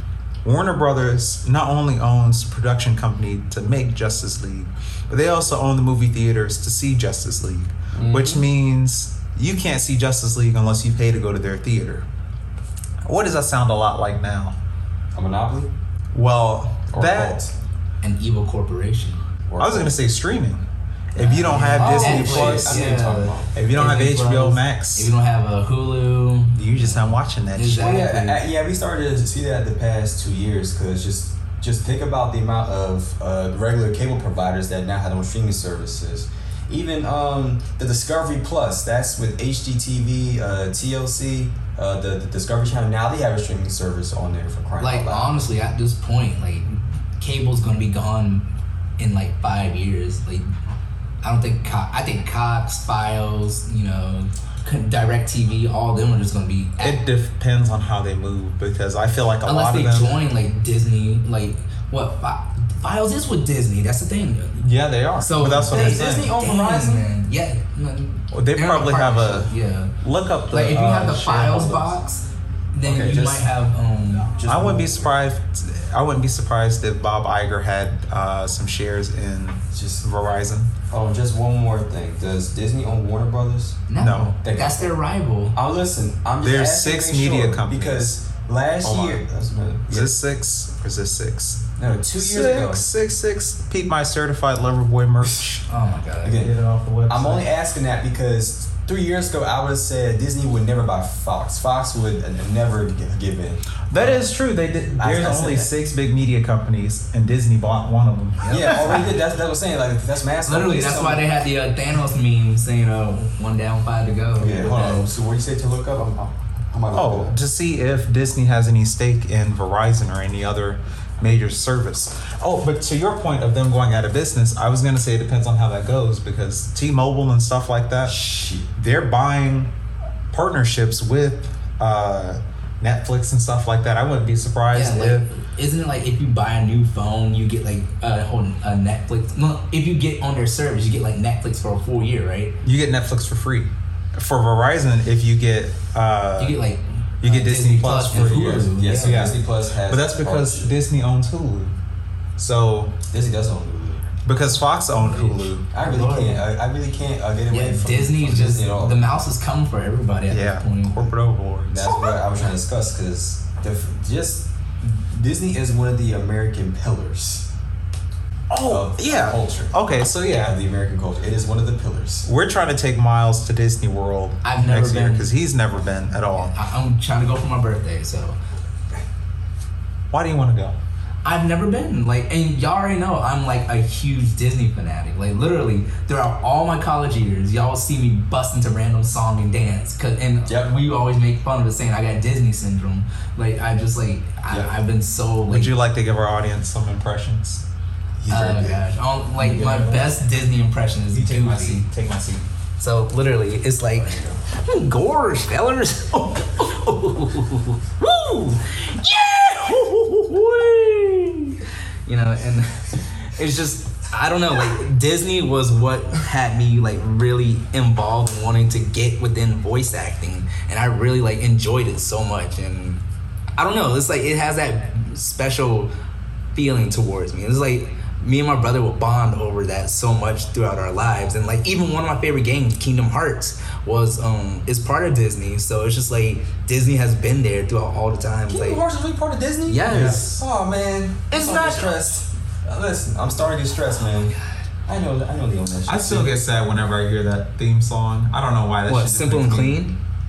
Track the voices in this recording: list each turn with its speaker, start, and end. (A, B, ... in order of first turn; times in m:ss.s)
0:00.4-0:12.1 A
0:07.9-0:08.4 B
0:13.0-0:14.6 A
0:15.1-0:15.7 B
0:16.1-0:17.4 A
0:16.9-0:17.5 B
0:18.0-0:19.2 C
0:19.5-0:20.0 B
0:19.6-0:20.6 A
0:21.2-0:22.9 A
0:21.2-0:28.4 C
0:21.4-0:23.6 B
0:23.6-0:25.1 A
0:26.6-0:28.0 A
0:27.8-0:45.4 B
0:44.8-0:50.5 C
0:51.2-0:57.0 C
0:56.8-1:00.2 A
0:59.4-1:04.6 C
1:04.6-1:06.3 A
1:05.2-1:09.9 C
1:05.7-1:07.1 B
1:08.3-1:12.0 A
1:10.5-1:14.3 C
1:12.8-1:13.5 B
1:14.3-1:15.1 B
1:14.5-1:20.7 A
1:19.7-1:20.1 B
1:20.9-1:23.9 B
1:23.9-1:25.6 C
1:24.0-1:24.3 A
1:24.4-1:24.9 B
1:25.6-1:30.1 B
1:26.4-1:28.1 A
1:28.8-1:29.2 A
1:29.9-1:31.7 A
1:31.8-1:32.9 B
1:32.2-1:35.6 A
1:35.7-1:36.4 C
1:36.2-1:36.6 B
1:36.4-1:37.5 A
1:37.1-1:44.1 B
1:43.9-1:49.1 A
1:45.0-1:45.7 B
1:48.4-1:49.2 C
1:48.5-1:51.3 B
1:50.5-1:55.1 C
1:54.4-1:57.4 B
1:56.9-2:08.2 A
2:08.0-2:08.7 B
2:08.8-2:09.7 A
2:10.3-2:15.3 A
2:14.7-2:22.6 C
2:22.6-2:26.6 A
2:26.4-2:29.2 C
2:27.2-2:31.7 A
2:28.1-2:30.8 B
2:32.4-2:33.0 A
2:33.1-2:34.1 B
2:34.3-2:35.7 A
2:34.9-2:36.4 C
2:35.7-2:39.0 B
2:37.5-2:41.1 C
2:40.3-2:41.9 A
2:41.7-2:47.5 B
2:41.8-2:42.2 C
2:48.5-2:50.5 A
2:48.7-2:52.3 B
2:52.2-2:56.5 A
2:54.4-2:55.3 C
2:56.3-2:58.4 C
3:00.1-3:00.8 A
3:01.2-3:15.7 C
3:10.5-3:10.7 B
3:15.5-3:17.6 A
3:18.2-3:18.9 B
3:18.3-3:21.9 C
3:19.4-3:20.2 A
3:21.1-3:22.5 A
3:22.8-3:43.0 C
3:24.0-3:24.4 B
3:43.6-3:45.9 C
3:46.5-3:58.8 C
3:58.5-4:04.3 B
3:59.7-4:00.3 C
3:59.9-4:00.4 A
4:01.3-4:02.1 C
4:04.9-4:06.3 B
4:05.9-4:09.8 A
4:08.9-4:10.0 C